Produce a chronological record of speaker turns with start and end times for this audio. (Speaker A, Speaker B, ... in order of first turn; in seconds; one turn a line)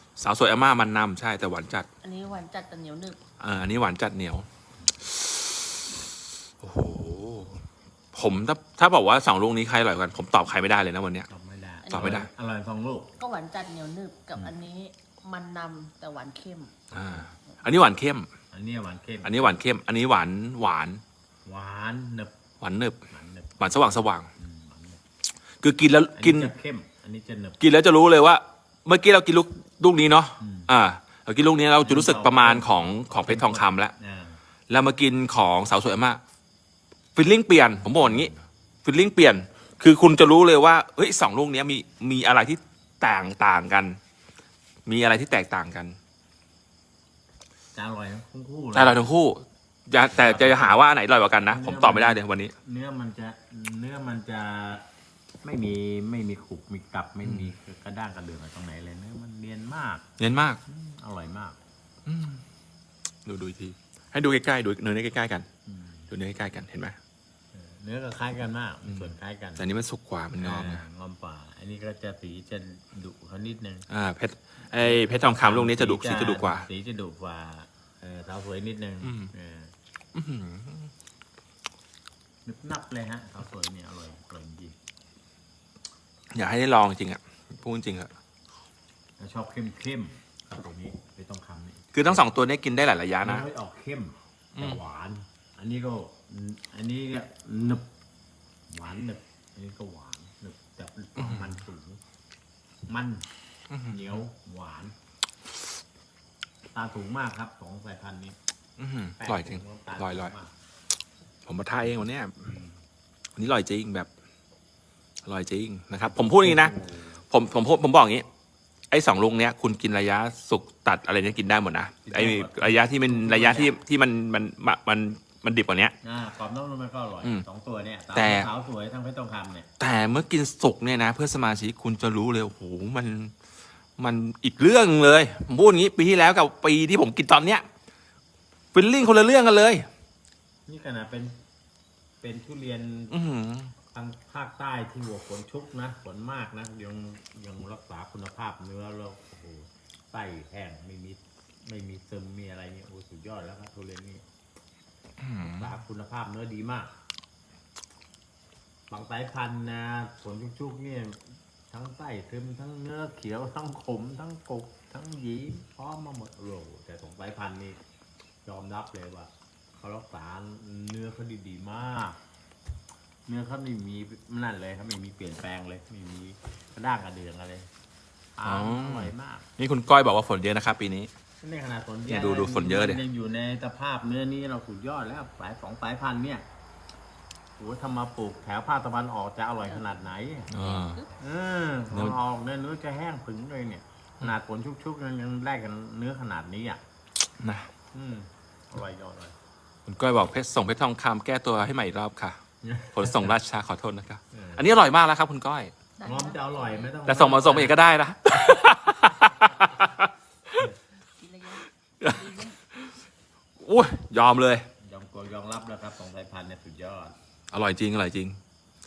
Speaker A: 0.2-1.9
Speaker B: 2.0-3.2
Speaker A: 3.4-4.5
Speaker A: 5.0-5.6
Speaker A: 6.6-7.6
Speaker A: 8.1-11.3
Speaker C: 11.3-13.1
Speaker B: 11.8-12.2
Speaker A: 11.9-12.3
Speaker B: 13.2-16.7
Speaker A: 16.9-18.3
Speaker C: 18.5-19.6
Speaker A: 19.2-21.0
Speaker C: 21.4-22.4
Speaker A: 22.6-23.0
Speaker C: 23.1-25.0
Speaker A: 23.6-24.3
Speaker A: 25.6-26.5
Speaker C: 26.1-27.6
Speaker A: 27.6-33.9
Speaker C: 30.4-30.7
Speaker C: 31.8-34.4
Speaker A: 34.7-36.2
Speaker A: 37.1-38.3
Speaker C: 38.0-38.4
Speaker A: 38.8-44.0
Speaker A: 44.9-46.0
Speaker C: 47.7-49.0
Speaker A: 48.7-52.5
Speaker C: 50.1-50.8
Speaker C: 51.5-54.9
Speaker C: 55.4-60.0
Speaker A: 57.2-57.5
Speaker A: 60.2-60.6
Speaker C: 60.6-61.6
Speaker A: 62.0-62.4
Speaker A: 63.2-65.5
Speaker C: 65.7-66.1
Speaker A: 66.1-67.0
Speaker C: 67.5-69.7
Speaker A: 68.9-70.8
Speaker C: 70.4-73.8
Speaker A: 73.9-76.7
Speaker C: 74.7-79.7
Speaker A: 79.0-79.3
Speaker A: 80.1-80.9
Speaker C: 82.4-84.8
Speaker A: 86.3-88.1
Speaker C: 89.2-92.2
Speaker A: 91.9-93.5
Speaker C: 93.2-97.9
Speaker C: 98.7-102.0
Speaker A: 101.2-101.5
Speaker C: 102.9-103.3
Speaker A: 103.7-104.2
Speaker C: 103.9-104.9
Speaker C: 106.7-108.4
Speaker A: 108.8-110.3
Speaker C: 109.2-110.5
Speaker A: 111.5-112.5
Speaker C: 112.4-112.8
Speaker A: 113.4-114.1
Speaker A: 115.2-116.8
Speaker C: 116.1-117.2
Speaker A: 117.3-118.3
Speaker A: 118.9-125.9
Speaker C: 122.1-123.8
Speaker C: 126.0-129.7
Speaker A: 128.1-128.5
Speaker A: 129.8-133.3
Speaker A: 134.0-137.7
Speaker A: 138.7-139.9
Speaker C: 140.7-141.4
Speaker C: 142.2-143.2
Speaker A: 143.1-143.7
Speaker C: 143.9-154.3
Speaker A: 155.2-155.7
Speaker C: 155.4-156.9
Speaker C: 158.9-167.8
Speaker C: 168.4-172.2
Speaker C: 173.3-177.7
Speaker C: 178.3-179.5
Speaker A: 178.4-181.1
Speaker C: 181.4-186.4
Speaker A: 182.1-183.0
Speaker C: 187.6-190.5
Speaker B: 189.7-191.1
Speaker A: 190.5-191.0
Speaker C: 191.1-196.8
Speaker A: 191.9-192.2
Speaker A: 197.4-197.7
Speaker C: 197.9-199.3
Speaker A: 199.8-202.4
Speaker C: 202.6-203.2
Speaker A: 202.9-205.7
Speaker C: 204.3-204.7
Speaker B: 206.0-206.9
Speaker C: 206.0-207.8
Speaker A: 207.0-210.7
Speaker B: 211.1-212.6
Speaker A: 212.0-212.9
Speaker A: 213.6-214.7
Speaker C: 214.8-217.2
Speaker A: 217.5-218.4